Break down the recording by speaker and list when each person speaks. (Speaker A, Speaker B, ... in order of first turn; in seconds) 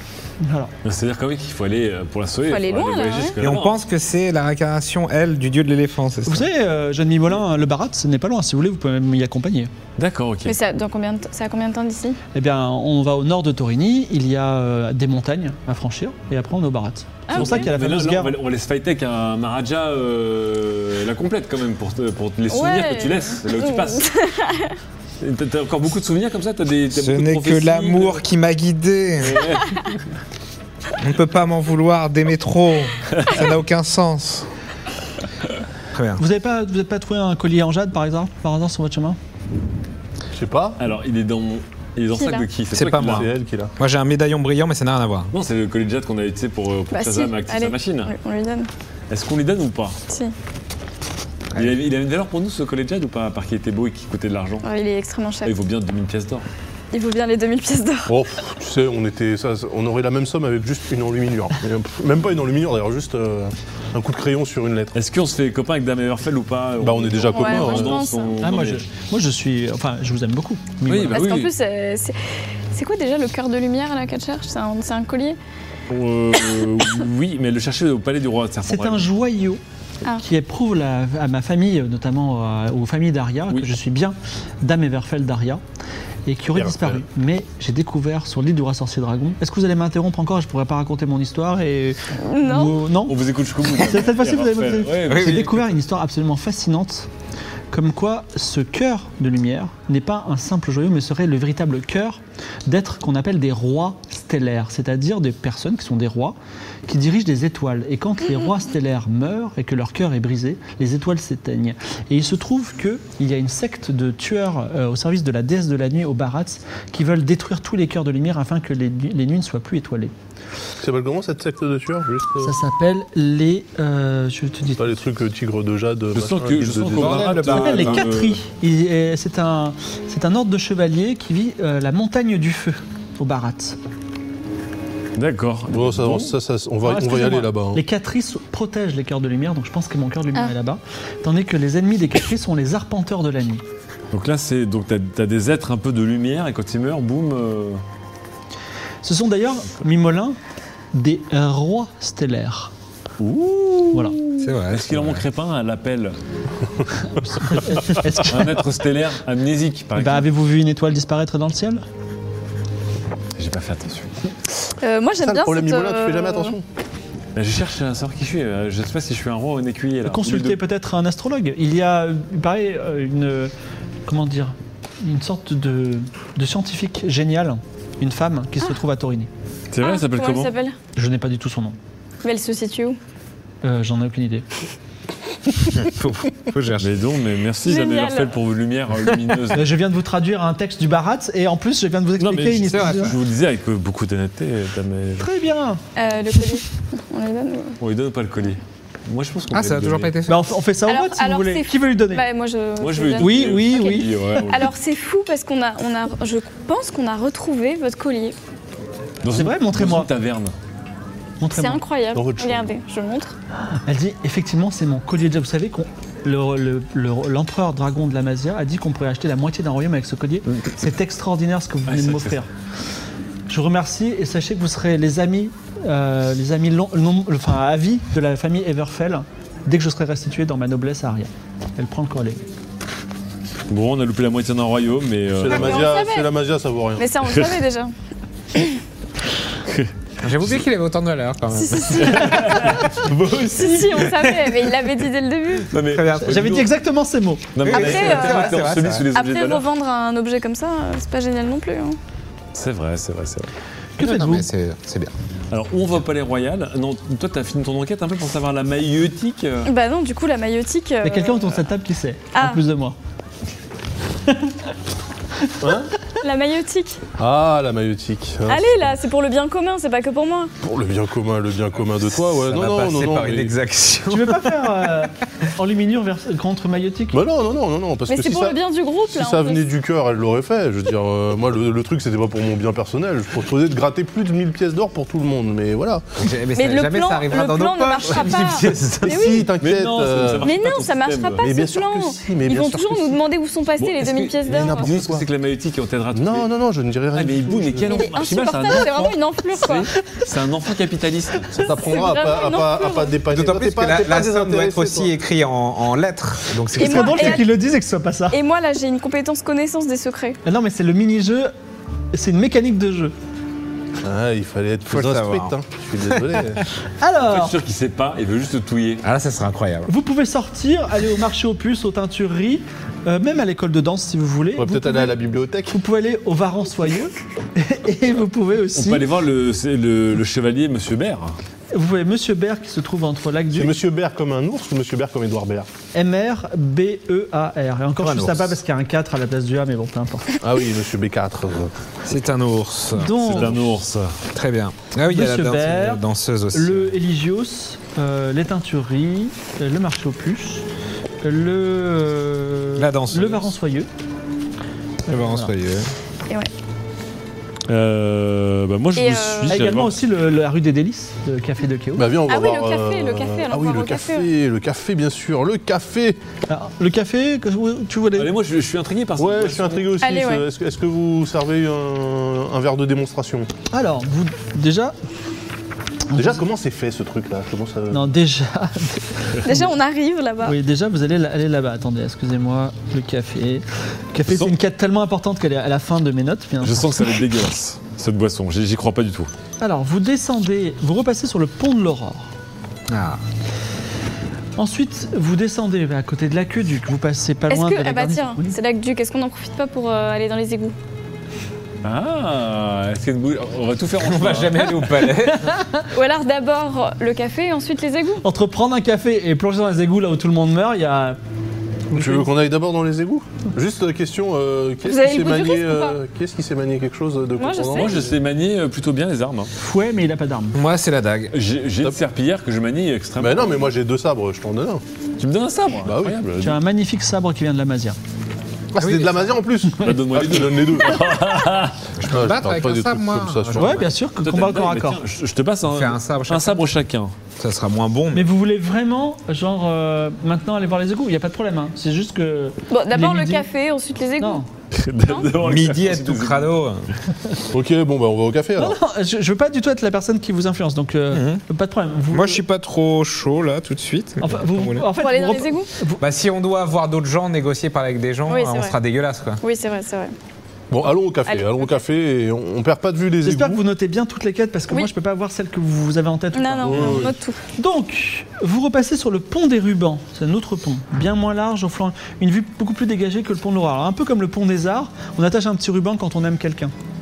Speaker A: 0.4-0.7, 6.3-9.7, 12.3-18.4, 36.2-39.2, 68.4-71.3, 78.7-79.6, 80.2-85.6, 86.3-97.1, 97.7-106.4, 106.9-120.1, 122.4-125.0, 127.5-133.8, 136.8-143.6, 149.0-150.4, 150.9-152.7, 157.2-158.6, 159.9-161.8, 170.1-173.5, 174.1-179.3, 180.9-181.8, 183.6-184.4, 189.6-193.1, 195.2-195.8, 200.3-202.2, 203.2-204.1, 209.3-210.1, 211.4-211.8, 213.9-222.5, 223.5-232.4, 246.2-247.5, 254.0-254.5, 261.0-262.9, 264.3-264.5, 274.1-277.2, 306.8-308.4, 310.4-311.5, 312.1-313.1, 317.0-317.6, 319.9-325.2, 325.7-329.0, 331.7-333.8, 335.9-340.4, 342.9-343.6, 345.1-350.6, 351.2-353.9, 355.1-355.5, 359.4-362.1, 366.5-368.3, 373.7-374.9, 376.1-376.4, 377.9-379.7, 380.4-386.9, 389.6-392.3, 394.6-398.6, 405.2-405.9, 408.2-411.2, 411.9-412.3, 419.6-420.6, 426.4-428.0, 433.6-435.0, 438.1-443.5, 444.2-444.4, 448.6-452.4, 454.2-456.0, 463.2-476.7
Speaker B: 0.8-3.8, 10.0-10.6, 17.3-24.1, 25.2-28.2, 29.2-30.0, 40.8-43.3, 45.3-48.1, 49.1-50.0, 51.5-54.7, 55.4-56.5, 64.9-68.8, 70.9-71.5, 75.9-79.1, 93.1-95.8, 126.1-128.4, 135.2-136.3, 144.1-147.8, 153.2-156.2, 158.2-160.3, 163.4-164.1, 167.4-170.6, 179.7-180.5, 186.8-189.7, 192.2-195.3, 197.8-200.1, 202.8-204.7, 209.2-210.5, 221.9-222.4, 233.7-235.9, 237.3-237.6, 239.7-239.9, 242.0-244.7, 245.7-246.7, 247.6-249.7, 252.5-253.5, 255.5-259.7, 289.6-291.4, 293.8-296.5, 297.1-301.7, 317.3-319.0, 328.8-331.4, 343.3-344.2, 357.7-360.0, 368.2-369.9, 384.3-384.5, 386.6-389.3, 401.8-404.7, 417.7-419.5, 421.3-423.7, 425.2-426.3, 429.8-431.9, 434.2-437.1, 444.7-446.6
Speaker C: 2.5-3.4, 10.4-12.2, 17.3-17.7, 22.5-24.8, 42.1-42.5, 46.9-48.7, 50.1-50.3, 54.6-55.5, 56.9-58.1, 67.3-68.3, 71.1-72.2, 72.7-75.4, 92.2-92.9, 164.8-166.6, 179.8-180.8, 182.2-183.0, 187.6-188.3, 195.9-197.8, 200.9-208.3, 211.5-213.3, 235.4-236.3, 236.9-237.9, 241.6-242.8, 243.4-245.7, 247.7-252.0, 259.6-261.6, 262.3-262.6, 266.2-267.0, 268.5-270.5, 278.1-279.6, 286.6-289.5, 290.4-294.9, 297.9-299.9, 301.8-303.2, 306.8-307.5, 308.3-310.4, 358.9-359.6, 362.3-364.3, 370.0-370.4, 379.4-380.6, 397.5-400.7, 405.9-408.2, 414.8-416.0, 417.4-418.0, 442.7-444.4, 454.9-455.7, 458.3-458.8, 459.4-460.1, 461.3-461.8, 466.3-467.4
Speaker D: 3.4-6.5, 26.9-29.5, 31.0-34.5, 35.9-36.2, 42.7-45.3, 51.5-51.8, 95.1-95.5, 126.9-128.1, 154.4-155.2, 185.7-186.9, 192.6-193.2, 199.5-200.5, 240.2-242.4, 245.8-246.6, 247.6-249.1, 254.0-255.1, 272.1-275.1, 286.2-289.4, 303.3-307.4, 314.9-315.6, 319.0-319.9, 338.0-338.6, 342.1-343.4, 344.3-346.9, 352.8-353.5, 355.1-355.9, 392.9-393.2, 404.0-405.6, 420.5-421.4, 428.8-429.2, 432.0-433.9, 435.7-436.6, 437.4-438.3, 445.4-446.9, 451.1-451.4, 452.1-454.9, 456.0-459.4
Speaker E: 40.3-40.8, 43.0-43.7, 58.1-65.0, 66.8-68.0, 86.5-87.0, 120.8-122.5, 124.8-127.6, 135.7-137.8, 165.2-166.6, 212.1-212.7, 235.4-237.2, 265.6-265.9, 267.2-268.7, 270.6-273.5, 277.1-286.0, 289.0-290.5, 291.4-293.2, 294.5-295.3, 296.1-298.1, 301.6-305.1, 314.0-316.6, 324.6-325.8, 333.5-335.7, 340.4-341.7, 343.2-343.6, 362.0-366.2, 369.2-373.5, 376.1-378.1, 411.9-418.1, 423.2-424.8, 425.8-426.6, 428.7-431.2, 432.1-433.9, 447.5-448.8, 460.7-463.6, 466.7-467.2